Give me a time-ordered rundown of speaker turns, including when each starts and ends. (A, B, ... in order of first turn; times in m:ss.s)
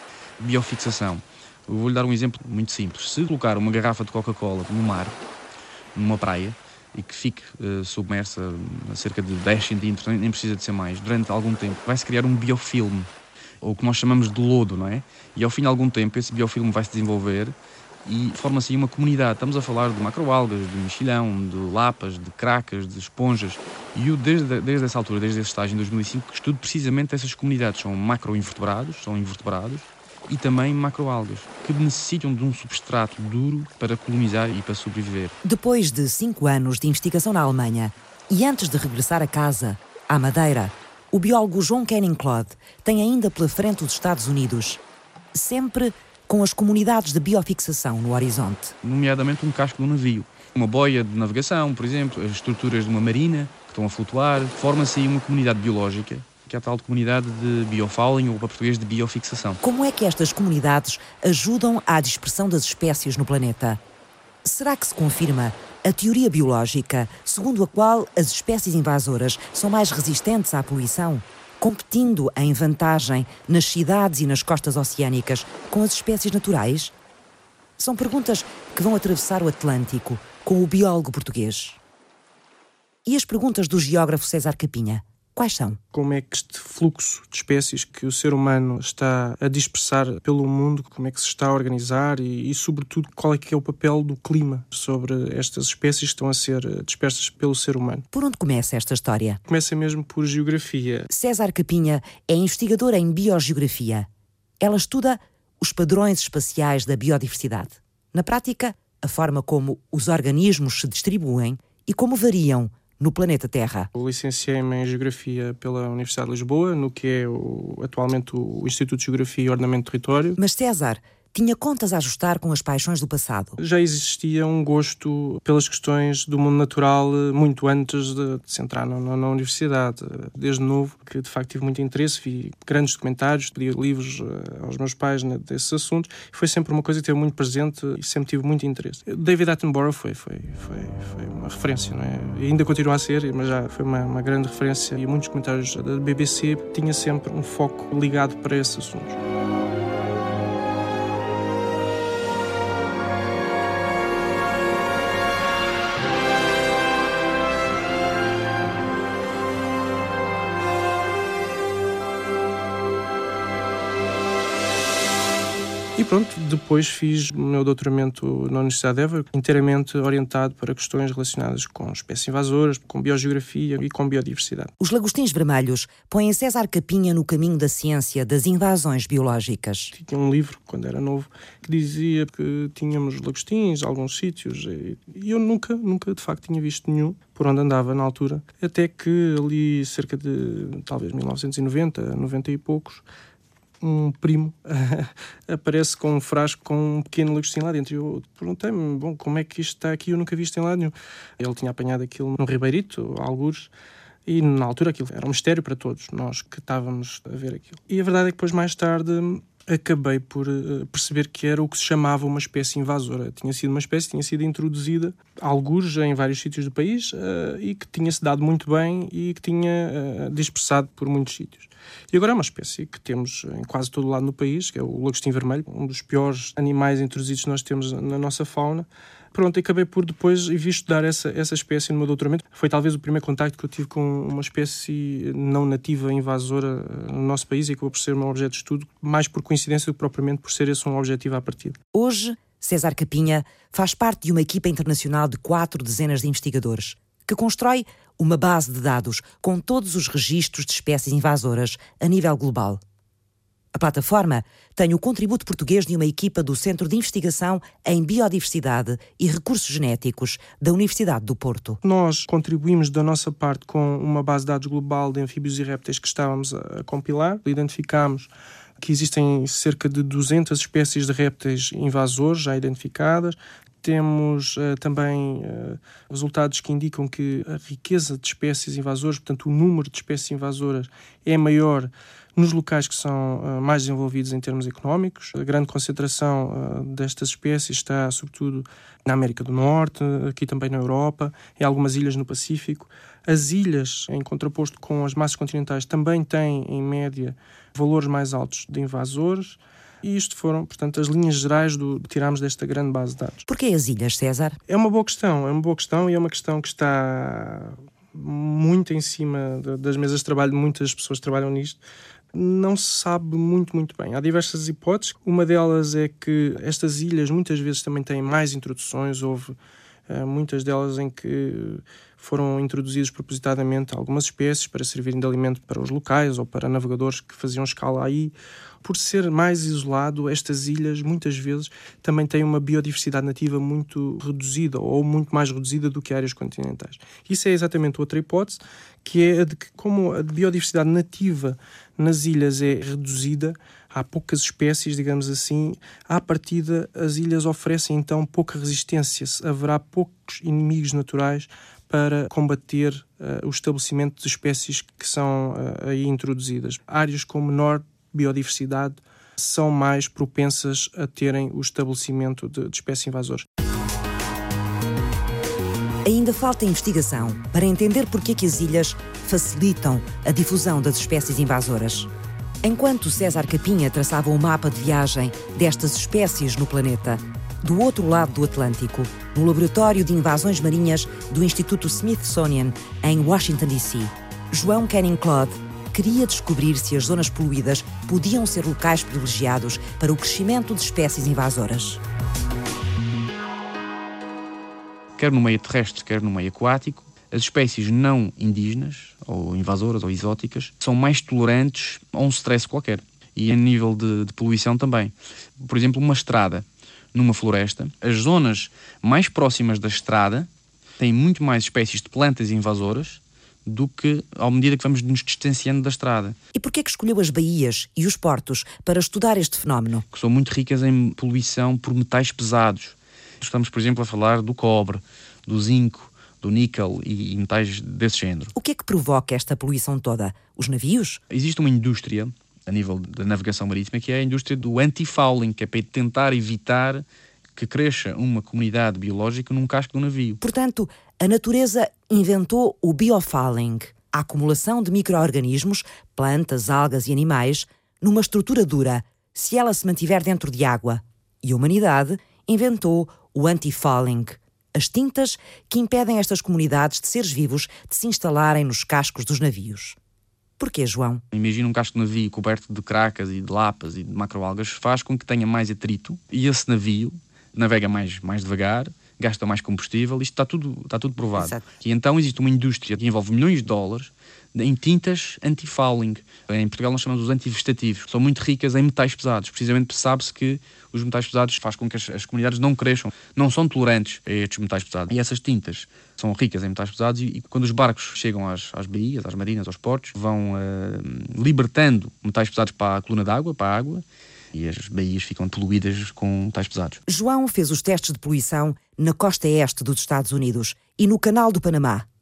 0:00.4-0:05.1 A
0:05.9-0:13.1 A
0:13.6-0:17.5 A
0:18.0-0:35.3 A
0:35.4-0:44.8 B
0:45.3-0:48.7 B
0:48.8-0:59.6 A
0:59.6-1:03.8 B
1:04.4-1:16.9 B
1:17.8-1:21.8 B
1:23.0-1:25.8 B
1:25.9-1:38.0 C
1:38.1-1:39.4 B
1:39.5-1:41.1 C
1:41.1-1:44.1 B
1:44.6-1:53.9 B
1:53.9-2:00.4 C
2:00.4-2:03.6 B
2:03.6-2:29.2 C
2:46.0-2:54.7 C
2:54.8-2:59.9 B
2:59.9-3:13.0 C
3:13.8-3:23.7 C
3:24.2-4:01.8 C
4:01.9-4:12.8 B
4:13.7-4:21.8 B
4:21.8-5:03.4 C
5:03.5-5:04.6 B
5:04.7-5:11.8 C
5:12.3-5:19.6 C
5:20.1-6:03.4 C
6:06.0-6:12.1 B
6:12.6-6:32.0 B
6:35.2-6:50.5 A
6:51.0-6:56.4 A
6:56.5-7:00.0 B
7:00.1-7:08.5 A
7:08.5-7:11.2 B
7:11.3-7:17.0 A
7:17.6-7:20.4 A
7:20.4-7:40.0 B
7:40.6-7:41.2 B
7:41.3-8:17.0 A
7:51.3-7:51.6 B
8:17.1-8:22.0 B